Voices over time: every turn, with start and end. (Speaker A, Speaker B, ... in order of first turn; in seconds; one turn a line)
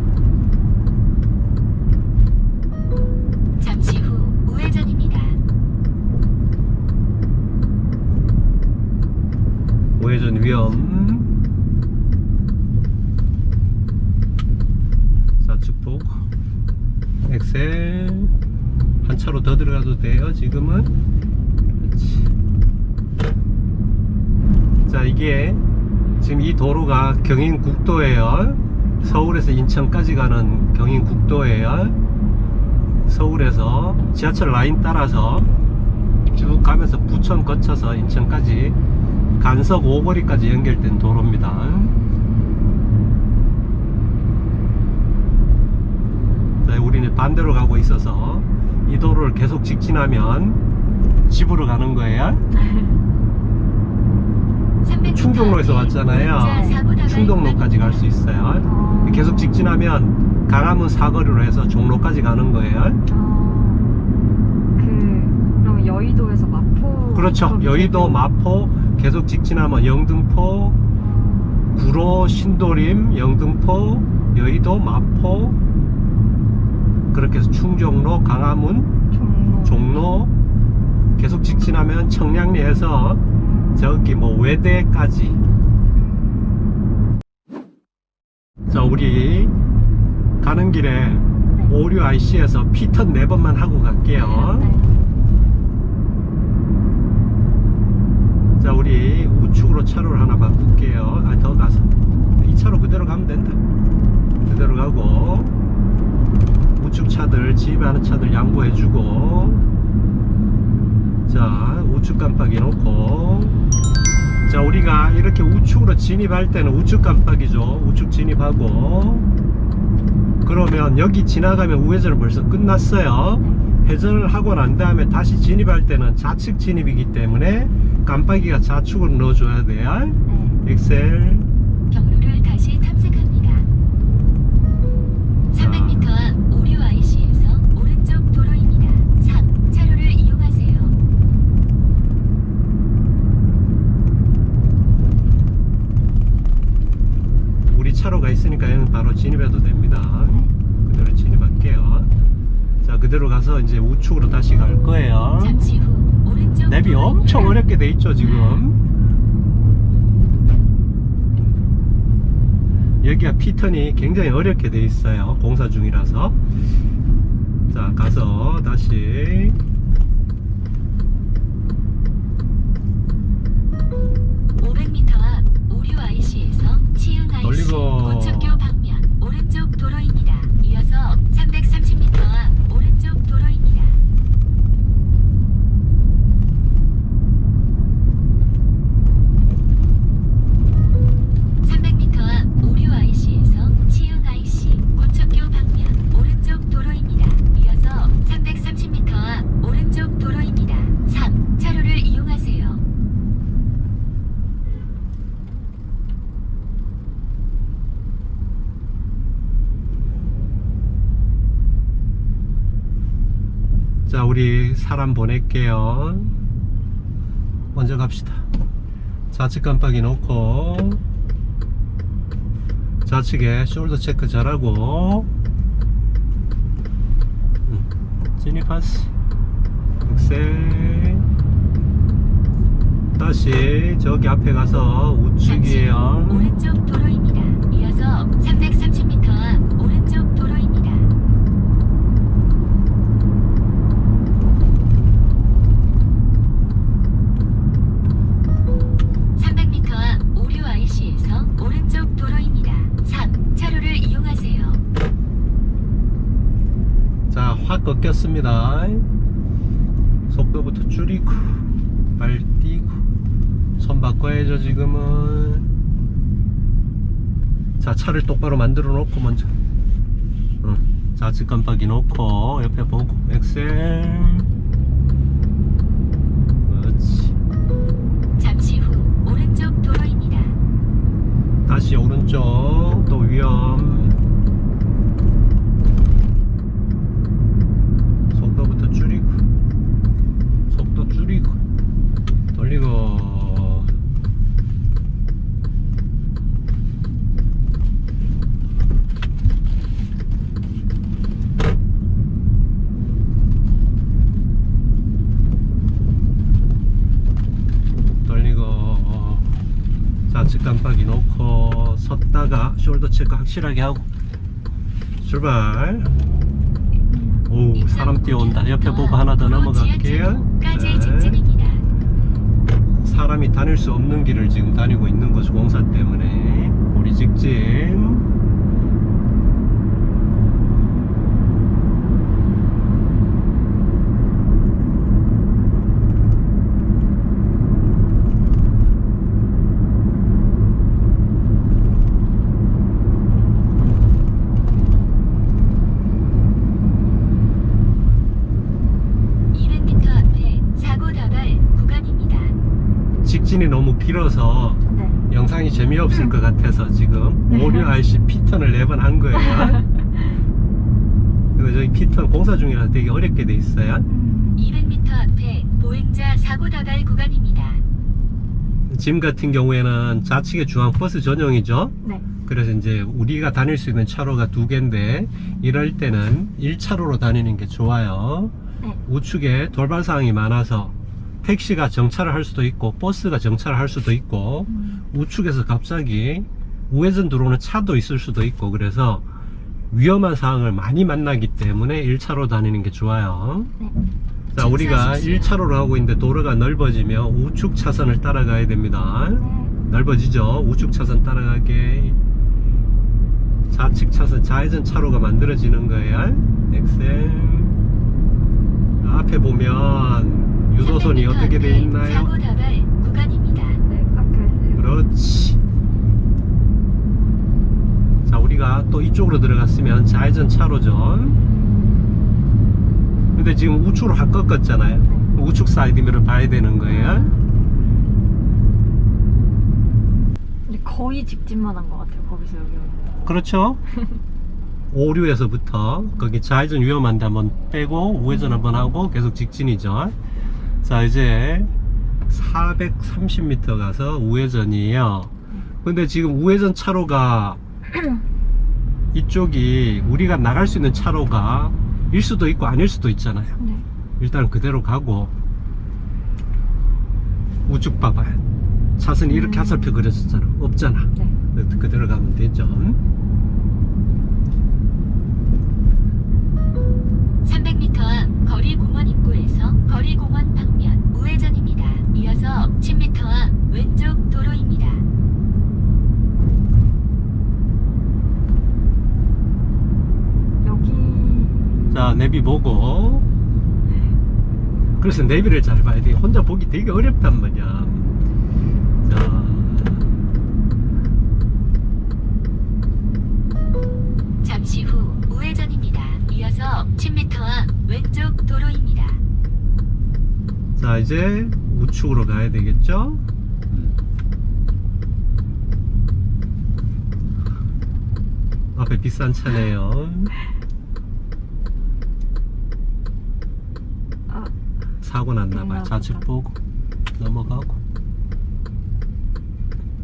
Speaker A: 3.6-5.4
Speaker B: 10.0-11.3
Speaker B: 15.4-16.3
Speaker B: 17.2-18.3
Speaker B: 19.0-20.9
Speaker B: 21.8-22.3
Speaker B: 24.9-25.6
Speaker B: 26.2-32.0
Speaker B: 33.1-35.5
Speaker B: 36.3-38.8
Speaker B: 39.4-42.0
Speaker B: 46.6-50.6
Speaker B: 51.3-52.4
Speaker C: 52.5-53.0
Speaker A: 54.8-58.1
Speaker B: 55.0-63.0
Speaker C: 56.5-56.9
Speaker C: 58.6-59.7
Speaker C: 63.1-63.9
Speaker C: 64.8-68.3
Speaker B: 67.1-70.8
Speaker C: 71.0-71.8
Speaker B: 71.7-75.6
Speaker B: 77.1-78.9
Speaker C: 79.1-80.2
Speaker B: 79.7-80.3
Speaker B: 81.2-83.2
Speaker B: 83.8-85.4
Speaker B: 88.7-89.5
Speaker B: 90.4-94.7
Speaker C: 94.2-95.0
Speaker B: 98.6-103.6
Speaker B: 104.5-105.5
Speaker B: 106.8-109.7
Speaker B: 111.3-113.6
Speaker B: 114.5-119.3
Speaker B: 120.5-131.5
Speaker C: 130.3-130.6
Speaker A: 131.9-133.7
Speaker A: 135.5-141.0
Speaker B: 135.5-136.1
Speaker B: 147.7-152.1
Speaker C: 150.3-150.5
Speaker B: 152.8-155.7
Speaker A: 155.4-157.6
Speaker B: 156.6-158.8
Speaker B: 163.0-166.4
Speaker B: 167.7-169.6
Speaker A: 174.6-184.0
Speaker B: 177.4-178.6
Speaker A: 191.6-202.8
Speaker B: 214.1-216.4
Speaker B: 217.7-218.5
Speaker B: 219.3-221.0
Speaker B: 223.1-225.3
Speaker B: 227.7-229.1
Speaker B: 230.0-231.3
Speaker B: 233.2-236.5
Speaker A: 235.4-241.1
Speaker A: 249.4-254.8
Speaker B: 257.3-259.1
Speaker B: 260.3-263.0
Speaker B: 263.8-265.7
Speaker B: 267.8-269.5
Speaker B: 270.6-274.5
Speaker B: 276.7-277.4
Speaker A: 278.4-280.6
Speaker B: 281.7-284.2
Speaker B: 288.3-289.4
Speaker B: 290.7-291.6
Speaker B: 292.5-294.0
Speaker B: 308.2-309.6
Speaker B: 310.3-314.1
Speaker B: 315.2-316.1
Speaker C: 317.1-317.5
Speaker B: 317.5-321.4
Speaker A: 317.7-321.9
Speaker B: 323.0-328.3
Speaker A: 349.5-352.6
Speaker B: 353.2-359.8
Speaker C: 354.9-355.2
Speaker C: 357.5-357.9
Speaker C: 359.4-359.9
Speaker B: 361.6-364.1
Speaker C: 364.1-364.8
Speaker A: 364.6-367.8
Speaker B: 368.9-378.5
Speaker B: 379.1-389.2
Speaker C: 384.7-385.1
Speaker B: 389.9-393.7
Speaker B: 394.5-402.2
Speaker A: 394.6-395.6
Speaker C: 399.4-399.7
Speaker B: 403.7-407.8
Speaker B: 409.0-412.3
Speaker A: 410.8-413.8
Speaker C: 413.8-415.0
Speaker B: 414.8-415.6
Speaker B: 418.3-421.4
Speaker B: 423.4-427.3
Speaker C: 426.9-427.4
Speaker C: 430.7-433.2
Speaker B: 433.2-433.8
Speaker B: 434.9-440.2
Speaker B: 440.8-441.7
Speaker B: 442.3-445.3
Speaker B: 445.8-447.6
Speaker B: 449.1-453.6
Speaker C: 453.6-453.9
Speaker B: 454.2-455.3
Speaker B: 457.7-458.4
Speaker B: 459.0-463.0
Speaker C: 459.3-460.0
Speaker A: 467.4-475.1
Speaker C: 480.6-481.9
Speaker B: 481.9-483.3
Speaker B: 485.0-488.1
Speaker B: 489.1-490.2
Speaker A: 494.4-499.2
Speaker B: 500.8-504.0
Speaker B: 508.8-510.3
Speaker C: 514.3-514.5
Speaker B: 515.0-516.6
Speaker C: 515.5-516.2
Speaker B: 517.2-517.8